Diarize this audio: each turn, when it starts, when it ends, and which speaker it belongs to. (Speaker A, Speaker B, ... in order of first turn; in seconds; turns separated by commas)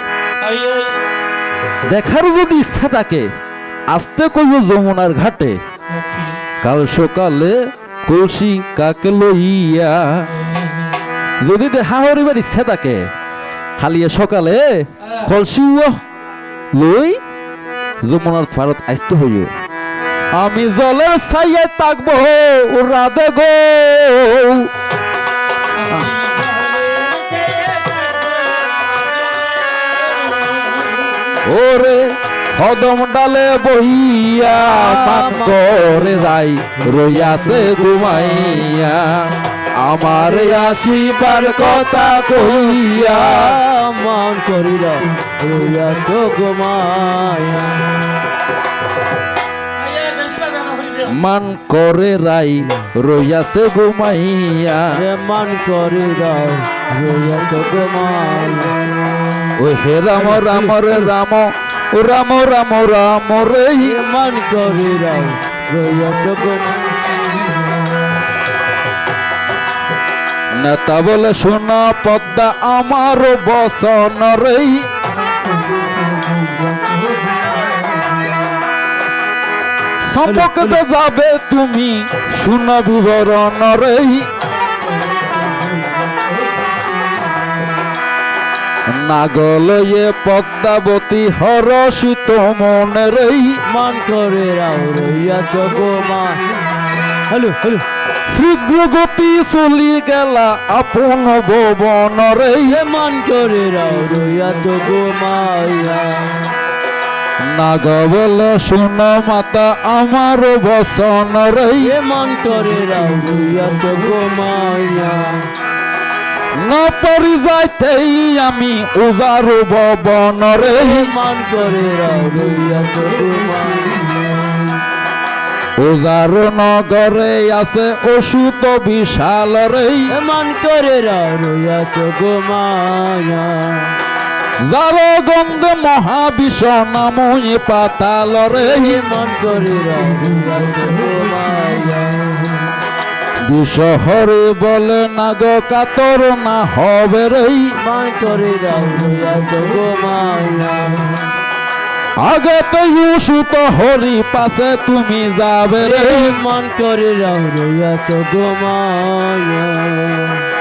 Speaker A: 0.4-0.9, Speaker B: 1.9-3.3, Speaker B: 3.9-5.5, Speaker A: 6.0-6.3, Speaker B: 6.6-7.5, Speaker B: 8.1-10.3, Speaker A: 10.6-10.9, Speaker B: 11.4-13.0, Speaker B: 13.8-14.6, Speaker B: 15.2-15.9, Speaker B: 16.8-17.1, Speaker B: 18.0-19.5, Speaker B: 20.4-24.7, Speaker B: 25.8-26.2, Speaker A: 26.2-28.7, Speaker A: 30.5-30.9, Speaker B: 31.4-32.0, Speaker B: 32.5-43.5, Speaker C: 34.6-38.7, Speaker C: 40.1-48.0, Speaker A: 49.8-51.0, Speaker B: 51.0-55.0, Speaker C: 54.9-58.8, Speaker B: 59.5-64.0, Speaker C: 60.1-61.1, Speaker C: 63.8-67.8, Speaker B: 70.6-74.8, Speaker C: 75.9-76.5, Speaker A: 76.1-77.8, Speaker B: 80.1-84.3, Speaker C: 80.2-80.8, Speaker A: 85.3-85.7, Speaker B: 88.9-93.6, Speaker C: 93.7-96.4, Speaker C: 97.3-97.8, Speaker B: 98.3-102.8, Speaker C: 102.7-106.5, Speaker B: 107.5-111.9, Speaker C: 111.8-115.5, Speaker B: 116.6-121.0, Speaker C: 120.7-124.5, Speaker B: 125.8-130.1, Speaker C: 130.1-133.9, Speaker B: 134.6-139.0, Speaker C: 138.5-142.6, Speaker B: 143.5-147.6, Speaker C: 147.8-151.2, Speaker B: 152.2-156.4, Speaker C: 155.8-160.4